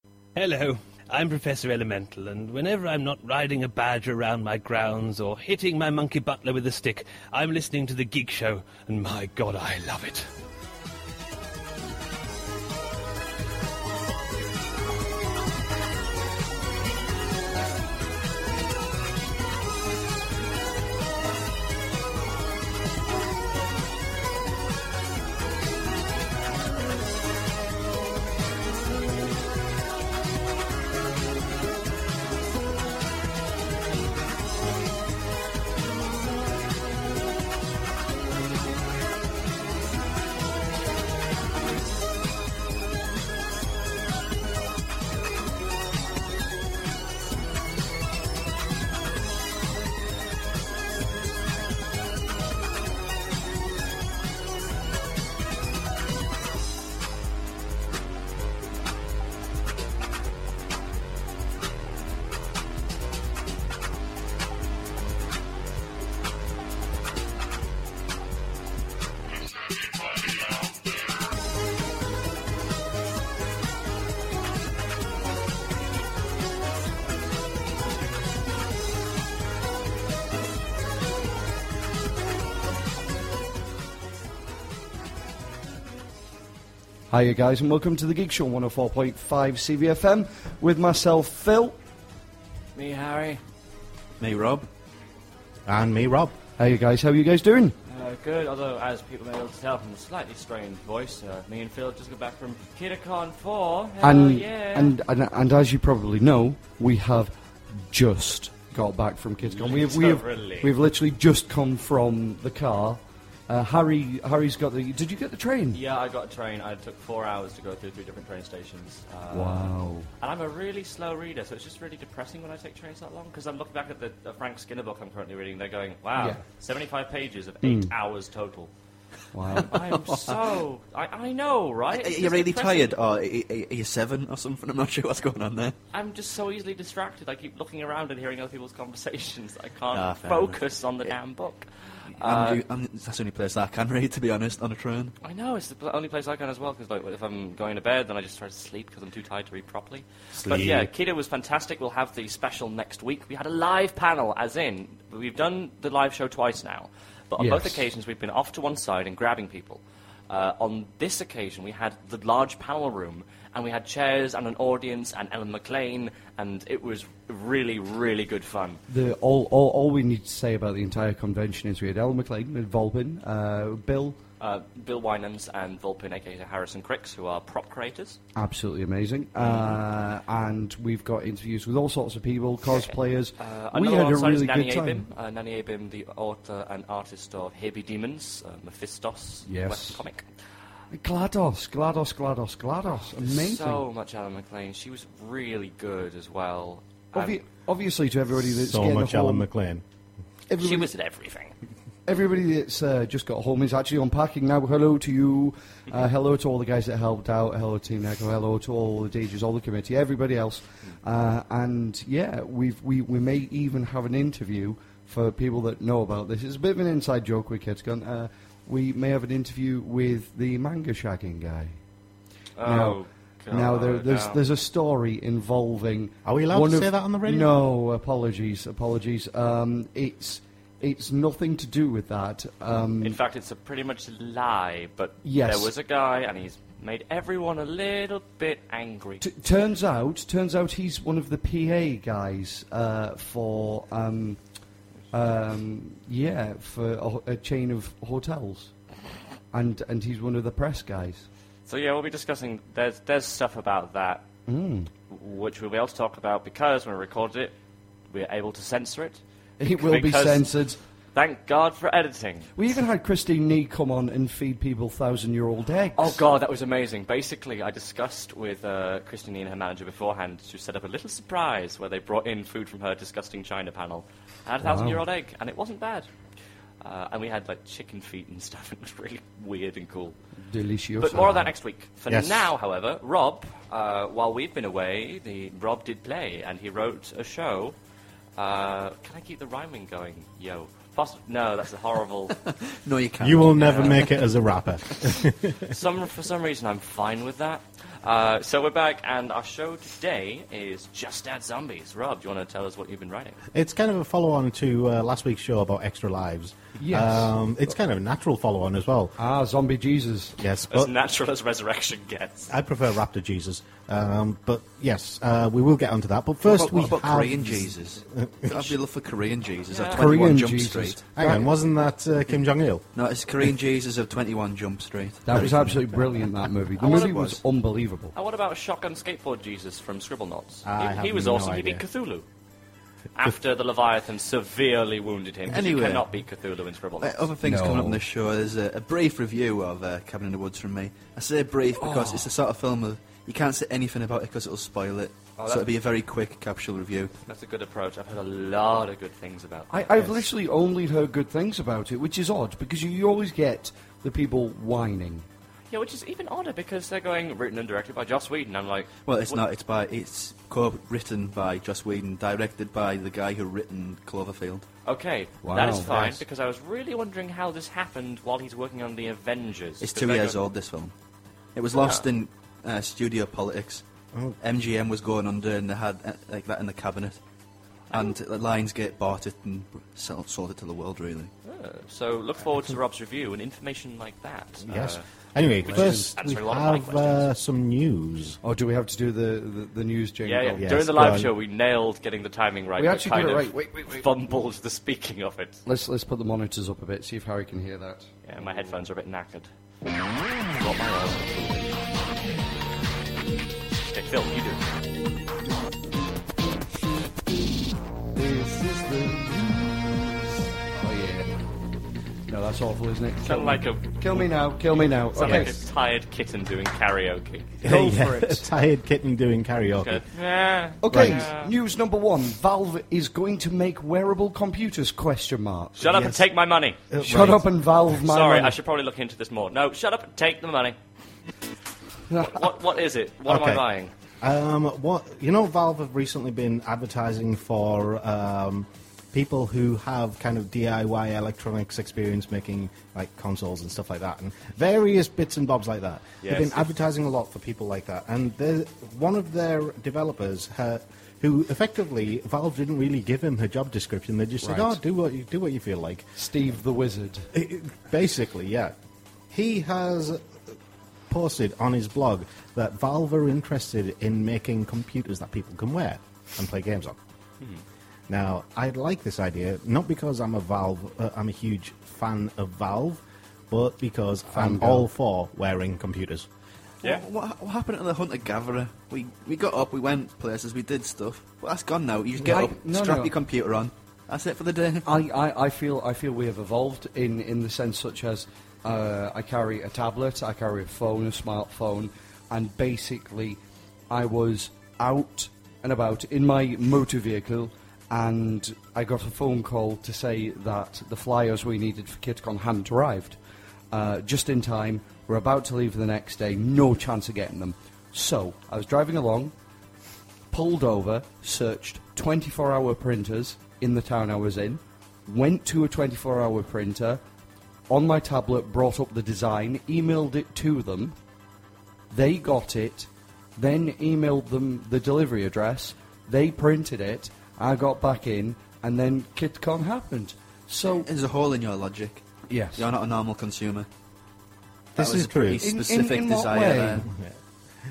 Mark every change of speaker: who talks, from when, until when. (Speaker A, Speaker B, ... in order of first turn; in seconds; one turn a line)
Speaker A: 0.3-10.3
Speaker B: 87.1-91.8
Speaker C: 92.7-93.4
Speaker D: 94.2-94.7
Speaker E: 95.7-96.3
Speaker B: 96.6-97.8
Speaker C: 97.9-104.9
Speaker B: 104.0-115.8
Speaker C: 109.4-110.7
Speaker C: 115.7-128.7
Speaker B: 119.3-120.1
Speaker B: 126.2-126.4
Speaker B: 127.6-127.9
Speaker B: 129.3-129.7
Speaker D: 129.6-130.5
Speaker C: 129.6-132.9
Speaker D: 131.9-135.8
Speaker C: 135.9-142.6
Speaker D: 139.9-141.1
Speaker D: 142.2-145.1
Speaker C: 145.2-168.8
Speaker E: 150.4-150.9
Speaker B: 157.4-157.8
Speaker B: 168.9-174.2
Speaker C: 174.4-178.2
Speaker B: 178.3-185.0
Speaker C: 179.4-179.8
Speaker C: 182.7-190.2
Speaker B: 189.4-190.0
Speaker B: 190.9-193.8
Speaker C: 193.2-197.4
Speaker B: 197.1-199.5
Speaker E: 198.4-199.8
Speaker B: 200.5-200.9
Speaker C: 200.6-201.5
Speaker B: 202.1-221.8
Speaker C: 222.6-224.4
Speaker B: 222.6-223.0
Speaker B: 223.5-233.2
Speaker E: 226.2-227.5
Speaker C: 233.0-239.2
Speaker B: 235.2-235.7
Speaker B: 239.2-244.4
Speaker B: 245.1-248.7
Speaker B: 249.5-251.2
Speaker C: 251.7-254.2
Speaker B: 254.5-254.9
Speaker C: 255.1-257.5
Speaker C: 258.1-260.5
Speaker B: 259.6-260.8
Speaker C: 261.1-262.5
Speaker B: 262.6-266.2
Speaker C: 265.9-276.1
Speaker B: 274.6-275.0
Speaker C: 276.8-280.1
Speaker B: 280.5-281.5
Speaker C: 281.0-287.8
Speaker E: 282.1-282.5
Speaker C: 288.4-292.4
Speaker D: 292.4-294.1
Speaker E: 293.2-295.7
Speaker C: 293.6-294.1
Speaker C: 295.7-303.4
Speaker E: 303.5-309.1
Speaker B: 306.8-307.3
Speaker B: 309.2-310.4
Speaker E: 310.4-310.9
Speaker C: 310.7-312.5
Speaker E: 312.5-318.8
Speaker D: 316.4-321.0
Speaker C: 319.7-320.1
Speaker B: 319.9-321.5
Speaker E: 321.1-322.9
Speaker D: 322.9-325.7
Speaker B: 325.2-328.1
Speaker C: 326.8-327.2
Speaker D: 326.8-327.4
Speaker C: 328.1-332.2
Speaker E: 330.6-331.8
Speaker C: 333.1-337.3
Speaker D: 335.5-336.2
Speaker D: 337.0-347.1
Speaker B: 337.4-338.0
Speaker B: 341.8-342.3
Speaker C: 345.4-345.7
Speaker C: 347.3-349.7
Speaker B: 349.7-355.2
Speaker C: 355.7-359.4
Speaker D: 359.1-364.6
Speaker C: 364.9-370.4
Speaker B: 365.4-366.2
Speaker D: 369.8-370.9
Speaker D: 371.5-373.8
Speaker C: 371.8-372.0
Speaker D: 374.4-377.2
Speaker D: 377.9-381.3
Speaker C: 381.4-385.0
Speaker E: 384.6-388.4
Speaker B: 385.6-386.1
Speaker C: 385.8-387.3
Speaker B: 388.4-391.0
Speaker C: 390.2-395.6
Speaker E: 390.6-391.3
Speaker B: 392.8-394.0
Speaker B: 395.6-398.1
Speaker C: 398.2-399.5
Speaker C: 400.6-401.8
Speaker C: 403.8-404.6
Speaker B: 408.1-411.3
Speaker B: 412.3-415.5
Speaker C: 413.2-413.9
Speaker C: 415.1-417.5
Speaker E: 417.6-420.0
Speaker B: 417.6-418.4
Speaker C: 419.8-421.5
Speaker B: 420.8-425.8
Speaker E: 420.9-421.2
Speaker C: 425.8-426.8
Speaker E: 425.8-426.2
Speaker E: 426.9-427.4
Speaker B: 427.0-428.6
Speaker C: 428.0-430.8
Speaker B: 432.1-432.4
Speaker C: 432.2-433.9
Speaker E: 433.2-433.6
Speaker E: 434.2-456.1
Speaker C: 446.2-446.6
Speaker B: 454.4-454.8
Speaker B: 456.1-457.3
Speaker E: 457.3-458.7
Speaker E: 459.3-460.4
Speaker E: 461.1-467.0
Speaker E: 468.1-476.3
Speaker B: 474.3-474.9
Speaker D: 476.8-484.9
Speaker B: 482.2-483.1
Speaker B: 484.8-493.4
Speaker B: 493.9-503.2
Speaker B: 503.7-509.3
Speaker B: 510.3-517.0
Speaker B: 517.7-521.0
Speaker B: 521.9-530.9
Speaker D: 530.8-533.7
Speaker B: 532.3-532.6
Speaker E: 534.7-535.5
Speaker D: 534.8-536.9
Speaker B: 535.4-536.8